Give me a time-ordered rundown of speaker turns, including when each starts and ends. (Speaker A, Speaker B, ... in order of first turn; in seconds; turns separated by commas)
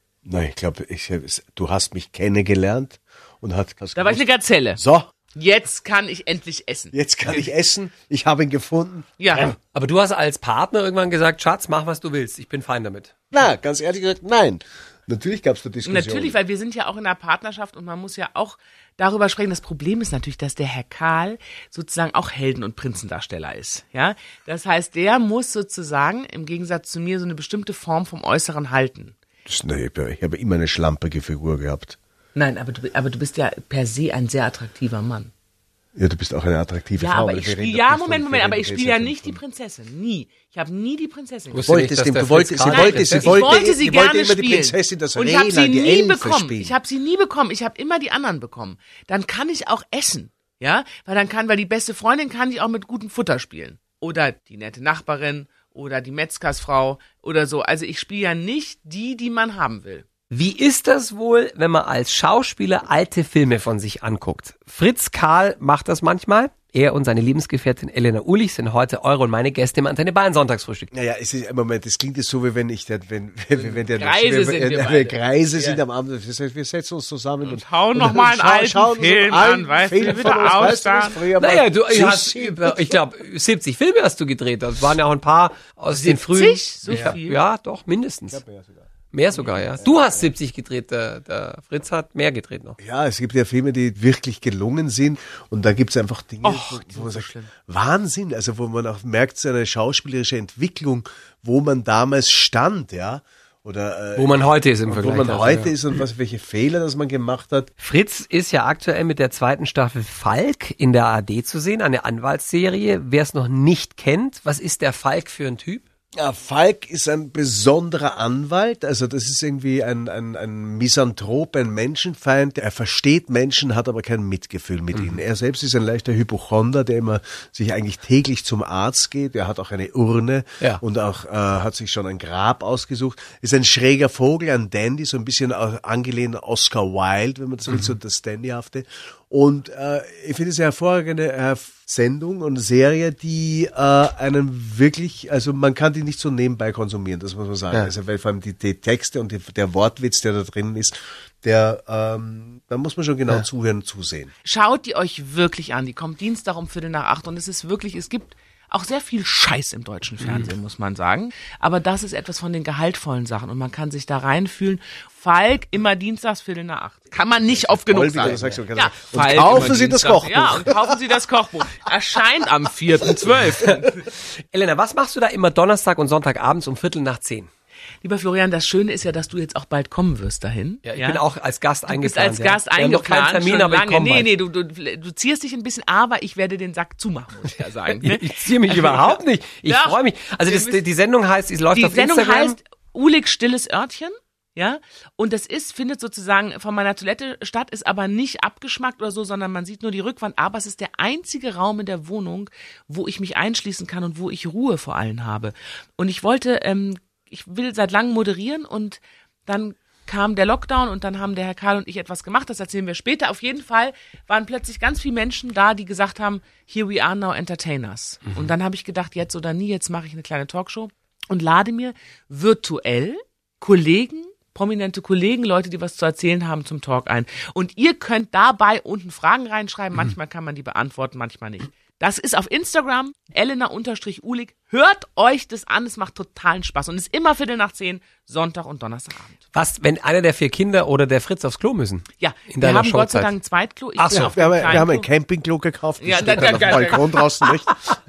Speaker A: 0.2-4.2, Speaker B: 4.0-4.8, Speaker A: 4.8-5.1, Speaker B: 5.3-6.9, Speaker A: 6.9-9.5, Speaker B: 9.2-9.5, Speaker C: 9.3-13.1, Speaker A: 13.3-16.4, Speaker B: 15.8-29.1, Speaker A: 29.4-32.0, Speaker B: 32.3-35.3, Speaker A: 35.9-39.4, Speaker B: 37.0-41.9, Speaker C: 41.5-43.5, Speaker A: 41.6-46.8, Speaker B: 42.6-60.0, Speaker C: 60.3-70.9, Speaker A: 70.9-83.0, Speaker B: 73.5-75.8, Speaker B: 77.4-81.2, Speaker C: 81.4-88.4, Speaker B: 85.9-87.4, Speaker A: 88.3-88.9, Speaker C: 89.1-92.8, Speaker A: 89.8-90.3, Speaker A: 92.8-107.7, Speaker B: 96.4-97.5, Speaker C: 104.2-105.7, Speaker C: 107.8-115.8, Speaker A: 116.1-154.3, Speaker B: 154.4-174.1, Speaker C: 160.2-160.5, Speaker A: 167.5-171.0, Speaker C: 173.7-177.5, Speaker B: 178.0-181.2, Speaker C: 180.8-184.3, Speaker B: 181.9-190.8, Speaker C: 187.9-192.6, Speaker B: 191.7-239.4, Speaker C: 239.5-243.3, Speaker B: 242.2-245.1, Speaker C: 244.0-244.3, Speaker A: 244.1-247.8, Speaker B: 246.0-247.3, Speaker C: 246.4-246.9